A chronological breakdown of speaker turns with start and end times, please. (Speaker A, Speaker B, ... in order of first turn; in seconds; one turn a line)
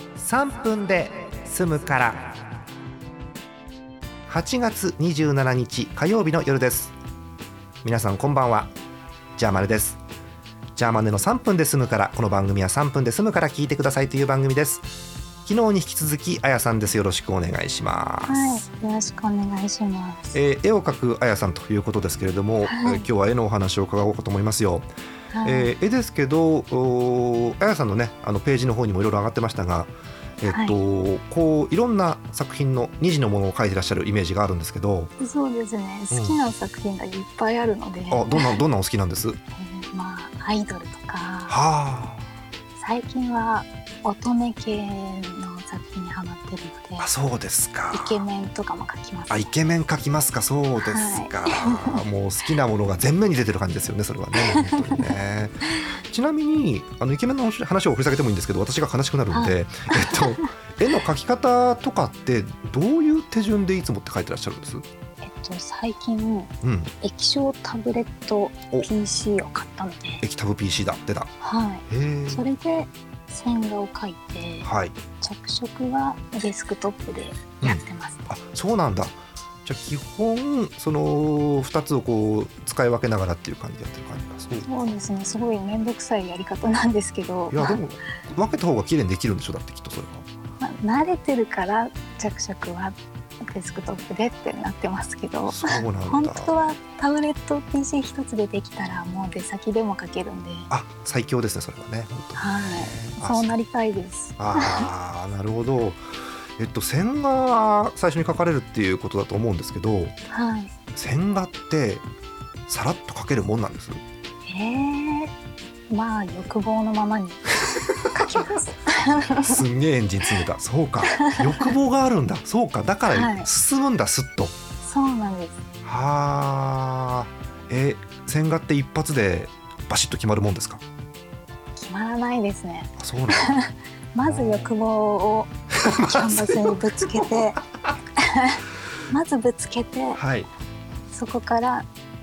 Speaker A: 0.1-2.4
Speaker A: 4.3-7.0
Speaker A: 7.8-8.7
Speaker A: 9.4-10.0
Speaker A: 10.8-14.9
Speaker A: 15.4-18.6
Speaker B: 18.3-20.4
Speaker A: 20.3-24.9
Speaker B: 22.7-23.1
Speaker B: 25.3-25.7
Speaker A: 25.4-35.1
Speaker B: 30.5-30.8
Speaker B: 35.2-38.6
Speaker A: 36.1-36.4
Speaker A: 38.1-39.4
Speaker B: 39.6-41.6
Speaker A: 41.5-42.2
Speaker B: 42.8-47.1
Speaker A: 47.0-48.2
Speaker B: 47.9-49.5
Speaker A: 49.3-64.8
Speaker B: 50.8-52.0
Speaker B: 54.5-55.1
Speaker B: 59.3-60.5
Speaker B: 65.2-70.2
Speaker A: 66.6-66.9
Speaker A: 70.2-71.3
Speaker B: 71.4-78.3
Speaker A: 71.9-72.5
Speaker A: 74.6-75.0
Speaker A: 77.6-84.7
Speaker B: 84.7-87.8
Speaker A: 87.5-90.3
Speaker B: 90.6-100.7
Speaker A: 95.5-96.6
Speaker A: 100.7-103.6
Speaker B: 102.4-104.9
Speaker A: 104.4-106.0
Speaker A: 106.6-110.1
Speaker B: 110.3-110.7
Speaker A: 111.0-112.0
Speaker A: 112.7-114.0
Speaker B: 114.5-115.3
Speaker B: 115.9-119.6
Speaker A: 119.4-124.5
Speaker B: 121.1-121.7
Speaker B: 123.1-123.5
Speaker B: 124.8-125.6
Speaker A: 125.8-130.8
Speaker B: 131.8-137.6
Speaker A: 133.0-133.6
Speaker A: 134.2-134.7
Speaker A: 135.8-137.2
Speaker B: 138.2-140.2
Speaker A: 140.2-140.5
Speaker B: 141.1-141.9